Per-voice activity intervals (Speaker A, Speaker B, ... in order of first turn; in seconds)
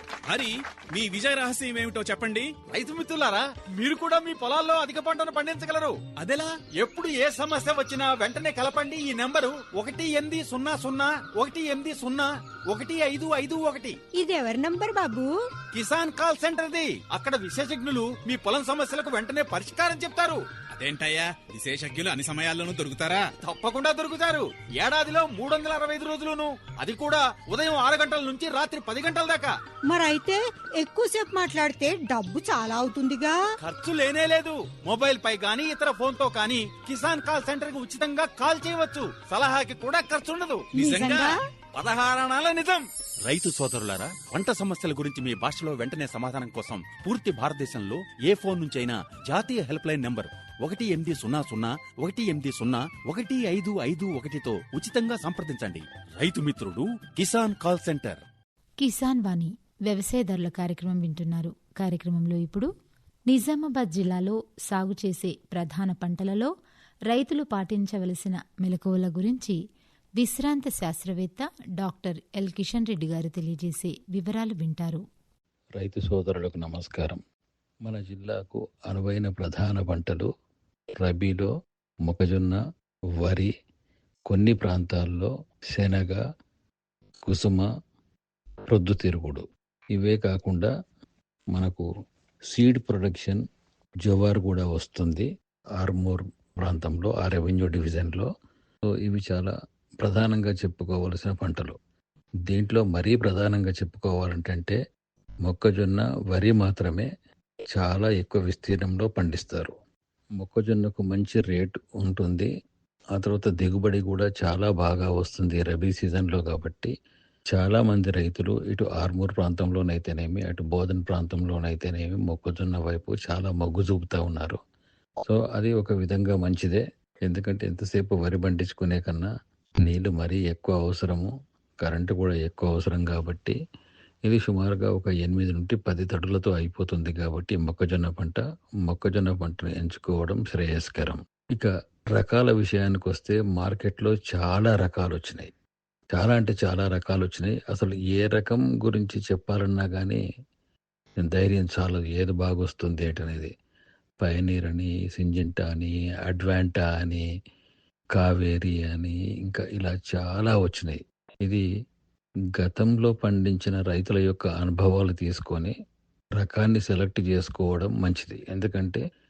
Speaker A: 0.3-2.6, 6.2-6.5, 20.7-23.3
Speaker B: 2.7-6.0, 6.8-14.0, 15.7-20.4, 23.4-29.5, 33.6-58.2
Speaker C: 14.1-15.3, 29.9-33.4, 40.7-41.4
Speaker D: 58.8-62.7, 63.3-66.5, 67.1-69.6, 70.2-75.0
Speaker E: 75.8-77.2, 77.8-80.3, 81.0-81.5, 82.0-82.6, 83.2-83.5, 84.3-86.2, 87.2-87.7, 88.7-90.7, 91.5-91.9, 92.5-93.4, 94.0-98.3, 99.0-101.8, 102.5-104.8, 105.4-107.1, 107.7-109.7, 110.4-112.5, 113.1-116.9, 117.5-124.6, 125.2-129.3, 129.8-133.6, 134.2-145.5, 146.1-150.2, 151.2-153.5, 154.2-157.2, 158.2-161.6, 162.6-165.8, 166.4-169.0